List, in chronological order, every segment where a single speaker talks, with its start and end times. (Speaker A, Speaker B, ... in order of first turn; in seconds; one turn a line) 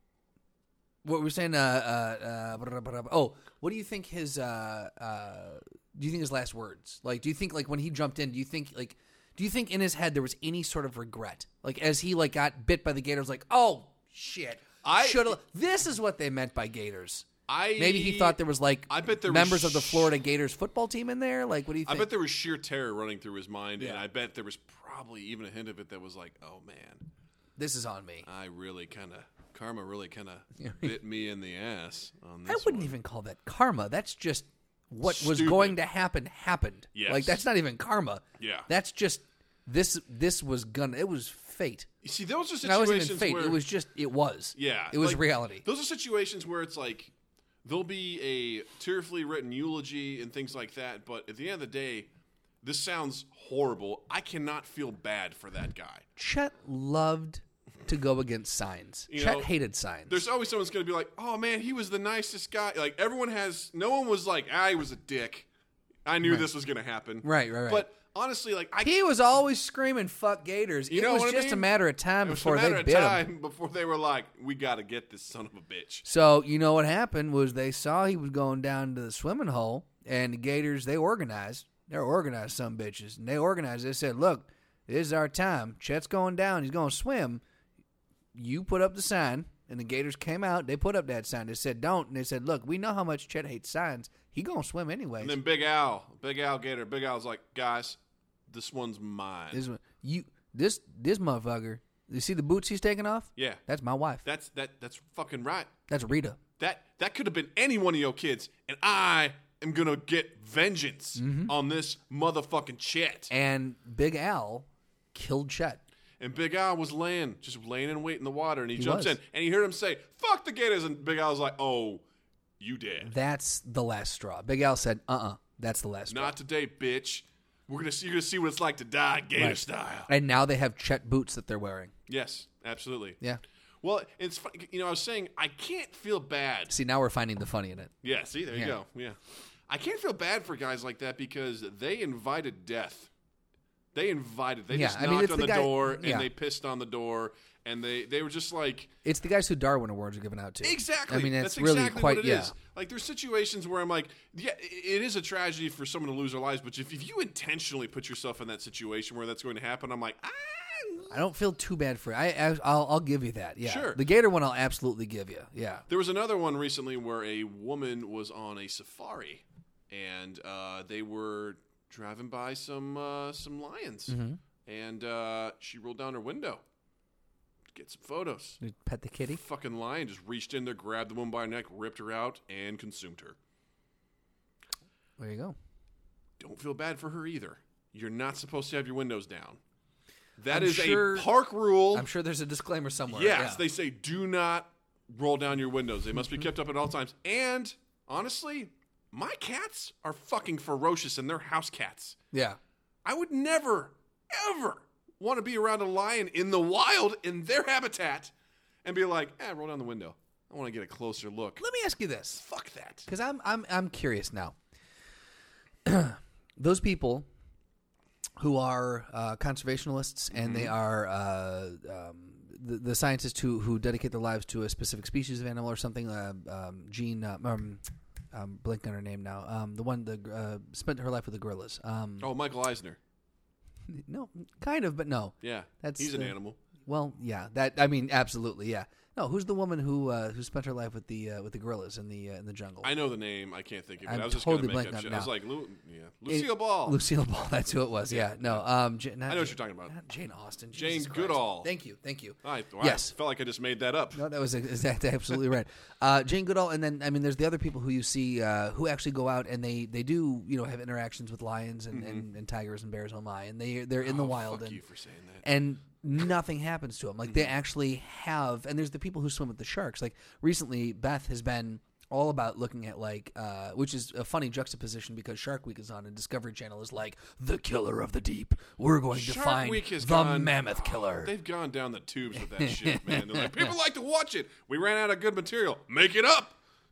Speaker A: 1.0-22.1
Speaker B: 14.8-15.4
Speaker B: 17.5-20.1
Speaker B: 21.8-27.1
Speaker A: 27.6-28.3
Speaker B: 28.2-32.9
Speaker A: 30.6-30.9
Speaker A: 32.5-41.9
Speaker B: 35.0-35.8
Speaker B: 36.9-37.4
Speaker B: 38.4-38.7
Speaker B: 42.0-43.6
Speaker A: 42.6-45.6
Speaker B: 44.6-47.1
Speaker B: 47.6-52.1
Speaker B: 52.6-56.0
Speaker A: 56.2-60.2
Speaker B: 59.1-59.5
Speaker B: 60.1-65.5
Speaker B: 66.0-68.9
Speaker A: 66.2-66.5
Speaker A: 67.2-67.9
Speaker A: 68.8-73.2
Speaker B: 70.9-76.0
Speaker A: 76.0-87.4
Speaker A: 88.3-95.4
Speaker B: 95.2-99.6
Speaker A: 99.5-104.2
Speaker B: 103.4-103.6
Speaker B: 104.2-105.7
Speaker A: 105.9-106.4
Speaker B: 106.6-113.3
Speaker A: 111.2-111.5
Speaker A: 113.3-115.8
Speaker B: 116.2-122.0
Speaker A: 118.8-119.2
Speaker B: 122.6-123.1
Speaker A: 123.0-126.3
Speaker B: 126.1-130.1
Speaker A: 129.4-131.9
Speaker B: 132.1-133.2
Speaker B: 133.8-136.7
Speaker A: 136.7-137.9
Speaker B: 138.0-143.1
Speaker B: 143.9-148.9
Speaker A: 144.7-146.3
Speaker A: 149.0-152.5
Speaker B: 150.6-161.1
Speaker A: 161.1-165.9
Speaker B: 163.6-164.0
Speaker B: 165.9-176.6
Speaker A: 174.1-174.4
Speaker B: 177.7-178.6
Speaker A: 178.6-179.4
Speaker B: 179.3-183.4
Speaker A: 185.2-185.5
Speaker B: 186.4-189.6
Speaker B: 190.4-192.1
Speaker A: 190.5-191.3
Speaker A: 191.9-193.6
Speaker B: 193.1-202.2
Speaker A: 202.3-202.6
Speaker B: 203.0-208.3
Speaker B: 208.8-211.6
Speaker A: 211.6-212.4
Speaker B: 212.3-213.1
Speaker A: 213.1-214.6
Speaker A: 215.9-217.3
Speaker A: 218.4-232.3
Speaker B: 220.3-220.7
Speaker B: 232.2-233.0
Speaker A: 233.9-242.9
Speaker B: 235.4-236.6
Speaker B: 242.8-247.0
Speaker A: 244.0-245.3
Speaker A: 246.3-253.1
Speaker B: 248.1-248.6
Speaker B: 249.3-249.9
Speaker B: 250.8-251.7
Speaker B: 252.4-254.2
Speaker A: 254.1-264.8
Speaker B: 261.9-262.3
Speaker B: 264.0-265.5
Speaker A: 265.4-281.3
Speaker B: 267.3-267.5
Speaker B: 279.1-286.6
Speaker A: 282.4-283.7